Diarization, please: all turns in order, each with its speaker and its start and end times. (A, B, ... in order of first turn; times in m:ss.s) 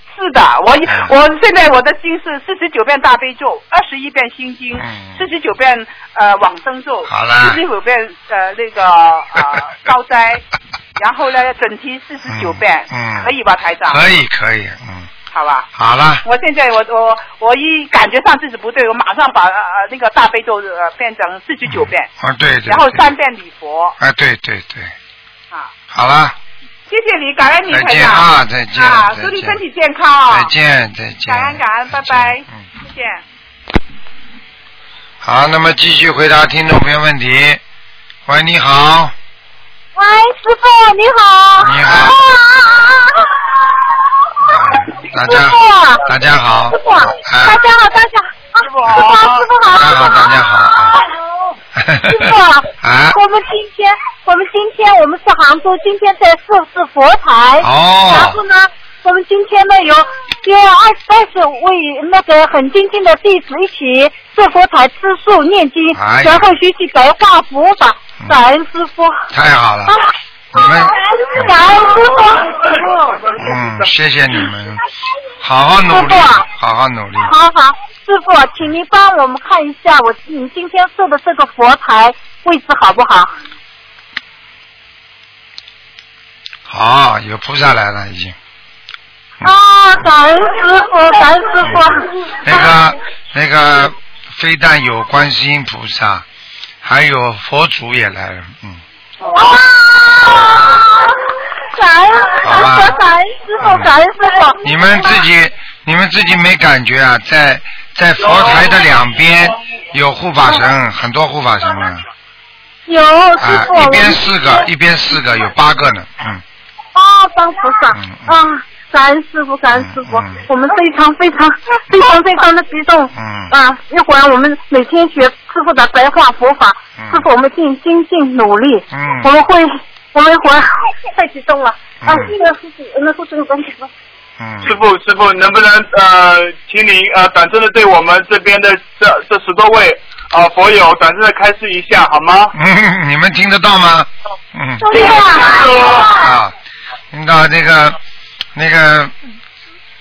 0:00.1-0:10.4 A
0:00.8-0:01.1 B
0:04.8-0:05.2 B
0:07.1-0:07.6 B
0:11.0-0:14.0 A
0:12.3-0:13.3 B
0:13.9-0:15.1 B
0:15.3-0:15.7 A
0:15.8-0:16.2 B
0:16.2-0:22.1 A
0:21.7-0:23.1 B
0:22.7-0:24.0 A
0:24.0-0:24.9 B
0:25.9-0:26.4 B
0:26.9-0:30.5 A
0:27.7-0:29.6 B
0:30.3-0:32.6 B
0:31.3-0:33.2 A
0:35.2-0:37.6 B
0:38.2-0:39.1 B
0:40.0-0:43.5 C
0:41.6-0:42.2 B
0:44.5-0:46.0 C
0:44.5-0:47.6 B
0:46.7-0:51.1 C
0:48.8-0:49.4 D
0:49.6-0:51.0 B
0:51.8-0:52.2 B
0:52.0-1:09.2 C
0:52.8-0:53.2 B
0:57.6-0:58.4 B
1:05.9-1:06.5 B
1:09.3-1:10.0 B
1:09.9-1:13.3 C
1:10.5-1:11.6 B
1:13.3-1:14.8 B
1:15.4-1:17.3 B
1:15.9-1:16.5 C
1:17.2-1:23.3 C
1:26.7-1:28.4 B
1:29.4-1:32.8 C
1:31.6-1:31.9 B
1:32.4-1:36.2 B
1:36.8-1:38.8 B
1:39.3-1:41.2 C
1:41.7-1:45.2 C
1:42.4-1:43.0 B
1:43.6-1:43.9 B
1:44.6-1:52.0 B
1:52.9-1:54.6 C
1:53.4-1:56.4 B
1:56.9-2:13.9 C
1:57.9-1:58.3 B
1:59.7-2:00.4 B
2:03.1-2:03.5 B
2:07.0-2:07.3 B
2:08.9-2:09.3 B
2:12.0-2:12.3 B
2:14.4-2:14.8 B
2:14.6-2:22.5 D
2:22.5-2:24.9 B
2:24.8-2:26.3 C
2:26.1-2:26.5 B
2:27.1-2:28.0 B
2:28.5-2:29.1 B